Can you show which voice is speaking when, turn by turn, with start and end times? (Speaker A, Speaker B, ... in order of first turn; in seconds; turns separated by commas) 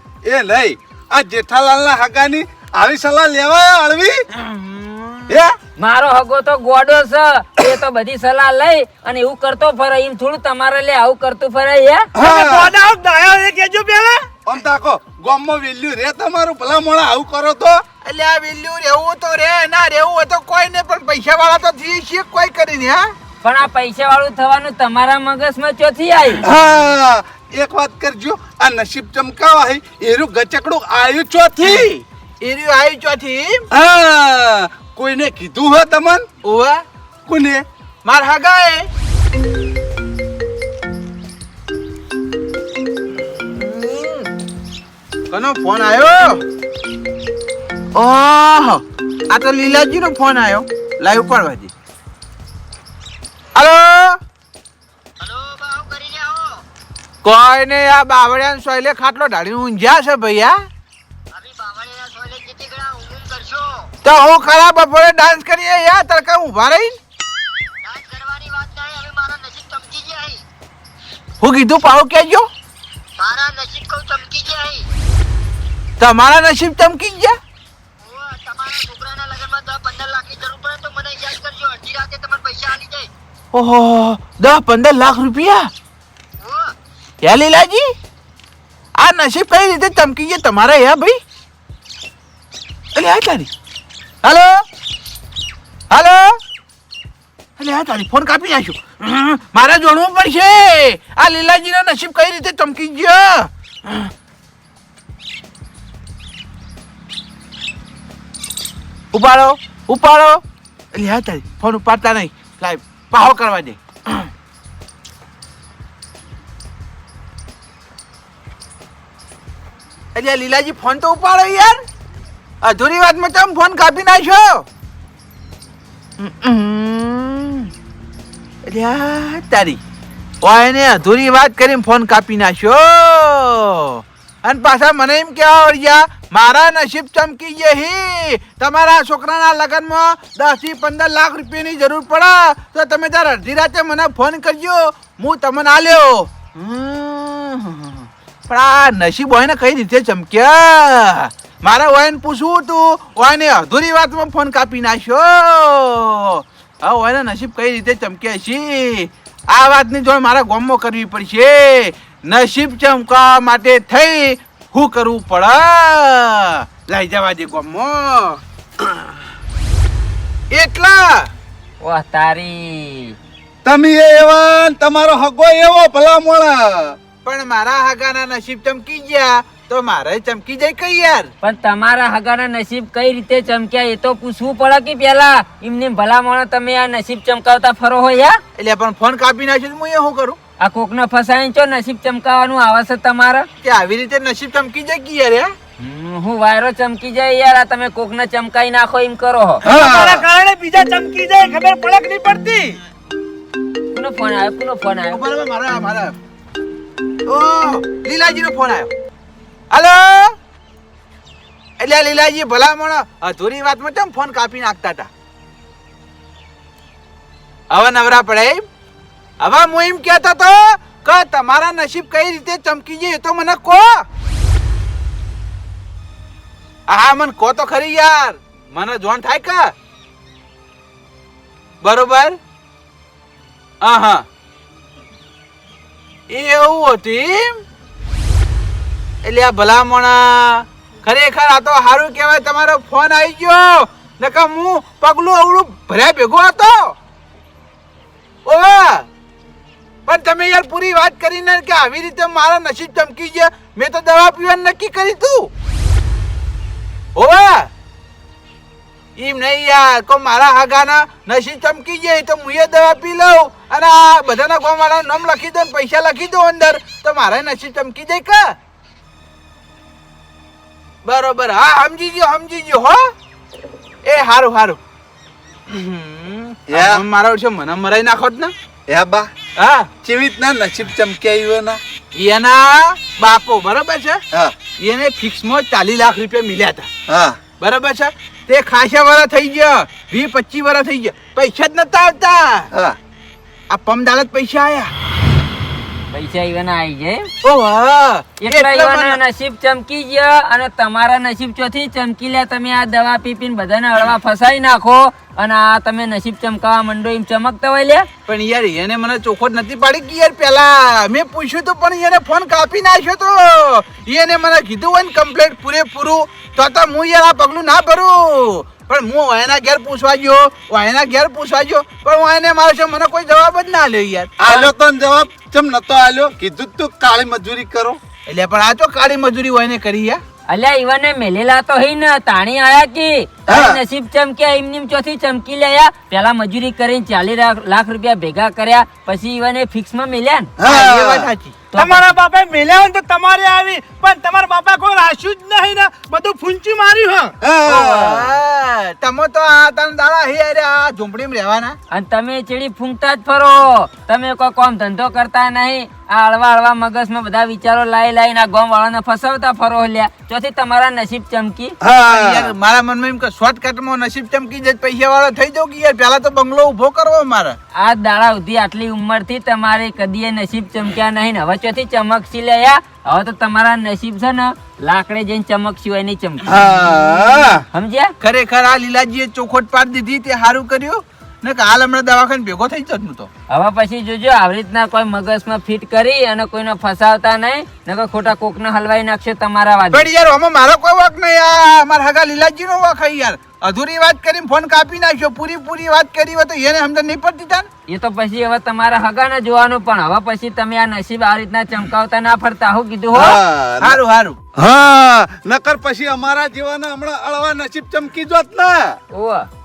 Speaker A: 0.2-4.2, Speaker B: 4.3-5.4, Speaker A: 5.3-5.5, Speaker C: 5.8-12.1, Speaker A: 12.1-12.7, Speaker D: 12.2-14.3, Speaker A: 14.4-17.8, Speaker B: 18.0-23.1, Speaker C: 23.4-26.4, Speaker A: 26.4-31.9, Speaker B: 31.6-33.6, Speaker A: 33.7-36.3, Speaker B: 36.4-36.8, Speaker A: 37.3-37.6, Speaker B: 38.0-38.9, Speaker B: 43.5-44.3, Speaker B: 45.3-46.4, Speaker B: 47.9-51.7, Speaker B: 53.5-54.2, Speaker C: 55.2-56.5, Speaker B: 57.2-60.6, Speaker C: 61.3-63.9, Speaker B: 64.0-67.0, Speaker C: 67.8-70.4, Speaker B: 71.4-72.5, Speaker C: 73.2-74.8, Speaker B: 76.0-77.4, Speaker C: 78.0-83.1, Speaker B: 83.5-85.7, Speaker B: 87.2-87.9, Speaker B: 89.0-91.2, Speaker B: 92.9-93.5, Speaker B: 94.2-94.6, Speaker B: 95.9-96.4, Speaker B: 97.6-104.1, Speaker B: 109.1-110.4, Speaker B: 110.9-114.3, Speaker B: 120.1-121.8, Speaker B: 122.6-124.7, Speaker B: 126.2-127.7, Speaker B: 128.6-129.8, Speaker B: 130.4-168.9, Speaker B: 170.5-171.3, Speaker C: 171.8-173.1, Speaker A: 173.6-177.0, Speaker B: 177.2-181.3, Speaker C: 181.4-188.4, Speaker B: 188.6-190.4, Speaker C: 190.6-193.5, Speaker B: 193.6-195.5, Speaker C: 195.8-199.6, Speaker A: 199.6-200.2, Speaker D: 199.7-202.8, Speaker C: 203.9-205.2, Speaker B: 205.1-206.2, Speaker B: 207.2-208.9, Speaker B: 209.7-210.4, Speaker B: 211.8-215.1, Speaker B: 217.7-218.7, Speaker B: 219.4-224.1, Speaker B: 226.9-229.7, Speaker B: 231.8-232.4, Speaker B: 233.8-234.2, Speaker B: 236.3-237.6, Speaker B: 239.2-246.9, Speaker B: 248.4-249.1, Speaker B: 250.1-255.5, Speaker B: 257.1-257.7, Speaker B: 259.2-268.6, Speaker B: 271.0-273.1, Speaker B: 274.0-274.8, Speaker B: 275.7-278.5, Speaker A: 276.7-277.0, Speaker A: 278.9-279.3, Speaker B: 279.6-279.9, Speaker A: 280.0-281.8, Speaker B: 282.1-284.2, Speaker B: 284.8-286.9, Speaker A: 287.1-287.4, Speaker B: 287.6-292.7, Speaker A: 292.7-293.0, Speaker B: 293.7-294.9, Speaker C: 296.1-297.3, Speaker B: 297.4-299.2, Speaker C: 298.4-308.1, Speaker B: 308.3-324.7, Speaker A: 324.4-328.0, Speaker B: 328.2-330.2, Speaker C: 330.5-340.5, Speaker A: 333.5-333.8, Speaker A: 340.6-341.3, Speaker B: 340.6-341.6, Speaker C: 341.7-342.0, Speaker D: 341.8-347.3, Speaker A: 347.4-348.4, Speaker B: 347.6-351.8, Speaker C: 351.9-361.7, Speaker A: 361.8-362.5, Speaker B: 362.1-367.6, Speaker C: 367.7-376.4, Speaker A: 376.4-377.6, Speaker C: 377.7-378.1, Speaker B: 378.2-383.3, Speaker C: 383.5-390.1, Speaker B: 389.9-397.7, Speaker C: 397.9-403.4, Speaker A: 403.1-404.0, Speaker B: 403.8-404.4, Speaker A: 404.5-409.0, Speaker C: 409.1-409.5